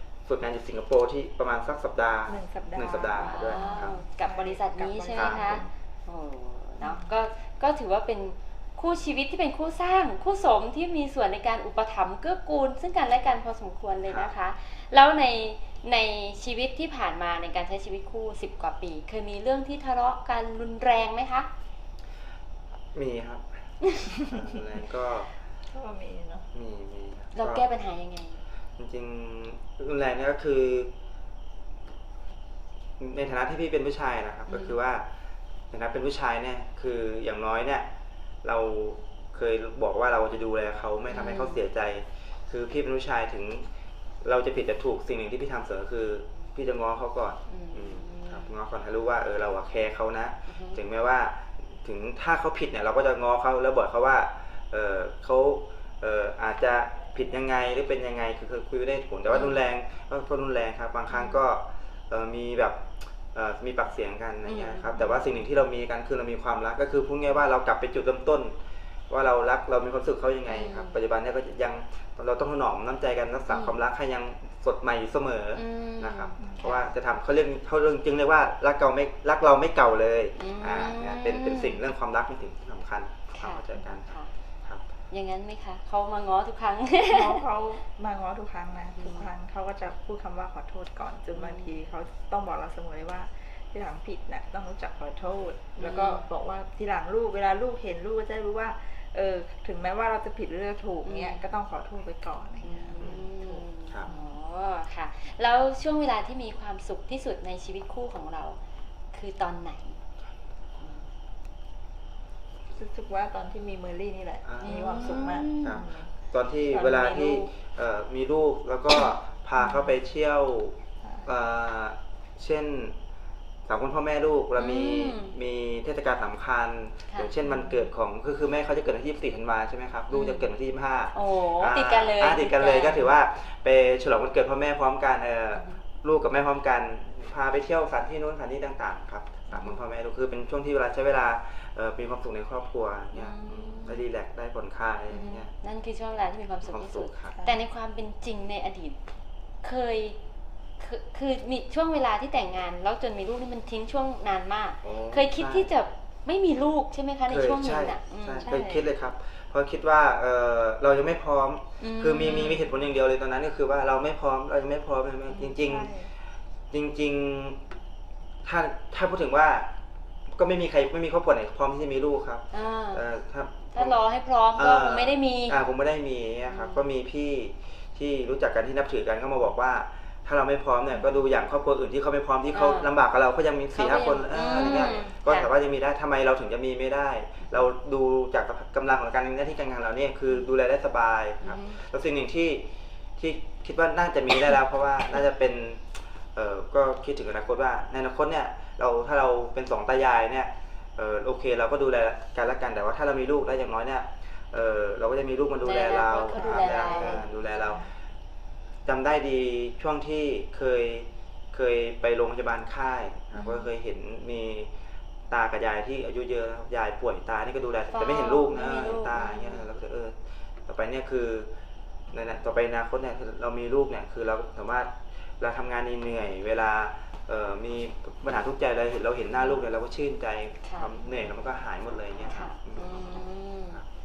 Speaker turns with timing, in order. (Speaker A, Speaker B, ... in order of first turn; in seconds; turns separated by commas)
Speaker A: 0.2-4.0, Speaker B: 2.3-5.7, Speaker C: 3.2-21.5, Speaker A: 5.2-5.6, Speaker B: 6.8-7.1, Speaker A: 14.1-14.3, Speaker A: 22.9-23.4, Speaker A: 24.3-25.3, Speaker B: 25.7-26.5, Speaker A: 26.5-27.6, Speaker C: 27.4-28.4, Speaker A: 28.8-30.9, Speaker A: 33.0-35.1, Speaker C: 34.5-34.8, Speaker A: 35.7-37.9, Speaker A: 38.4-43.7, Speaker C: 41.1-41.6, Speaker A: 44.2-68.6, Speaker C: 47.5-48.5, Speaker C: 50.5-50.8, Speaker C: 59.3-59.6, Speaker C: 61.1-61.4, Speaker C: 64.5-65.3, Speaker A: 69.1-84.1, Speaker C: 70.5-71.0, Speaker C: 73.5-73.8, Speaker C: 75.6-76.9, Speaker B: 76.4-76.7, Speaker C: 80.4-81.8, Speaker C: 83.3-84.3, Speaker C: 85.1-87.5, Speaker B: 87.0-103.7, Speaker C: 89.0-89.3, Speaker C: 91.4-91.8, Speaker C: 95.8-96.2, Speaker C: 101.0-101.4, Speaker C: 102.6-108.6, Speaker A: 103.0-103.2, Speaker C: 109.1-110.0, Speaker B: 112.7-116.1, Speaker A: 114.5-123.0, Speaker C: 114.6-115.8, Speaker B: 116.7-117.5, Speaker B: 121.0-121.3, Speaker A: 123.7-145.5, Speaker C: 124.6-125.4, Speaker C: 127.1-127.8, Speaker C: 130.1-130.5, Speaker C: 131.1-133.1, Speaker C: 139.5-139.8, Speaker C: 143.1-144.0, Speaker C: 145.1-149.0, Speaker A: 146.6-147.4, Speaker B: 147.3-147.6, Speaker C: 149.6-150.2, Speaker C: 150.8-158.5, Speaker A: 154.8-155.7, Speaker A: 157.3-165.9, Speaker B: 158.4-158.9, Speaker C: 161.8-162.7, Speaker C: 165.3-165.6, Speaker B: 165.6-166.1, Speaker A: 166.7-167.6, Speaker A: 168.4-169.7, Speaker A: 170.3-174.0, Speaker C: 172.5-173.0, Speaker C: 173.7-175.6, Speaker A: 174.6-195.8, Speaker C: 176.5-176.8, Speaker C: 182.5-182.9, Speaker C: 183.7-185.5, Speaker C: 191.4-191.8, Speaker A: 196.3-207.8, Speaker C: 205.6-207.3, Speaker B: 206.3-207.7, Speaker A: 208.8-214.7, Speaker C: 213.3-213.7, Speaker A: 215.3-221.5, Speaker C: 217.9-219.7, Speaker A: 222.1-233.2, Speaker C: 230.6-230.9, Speaker C: 232.3-233.8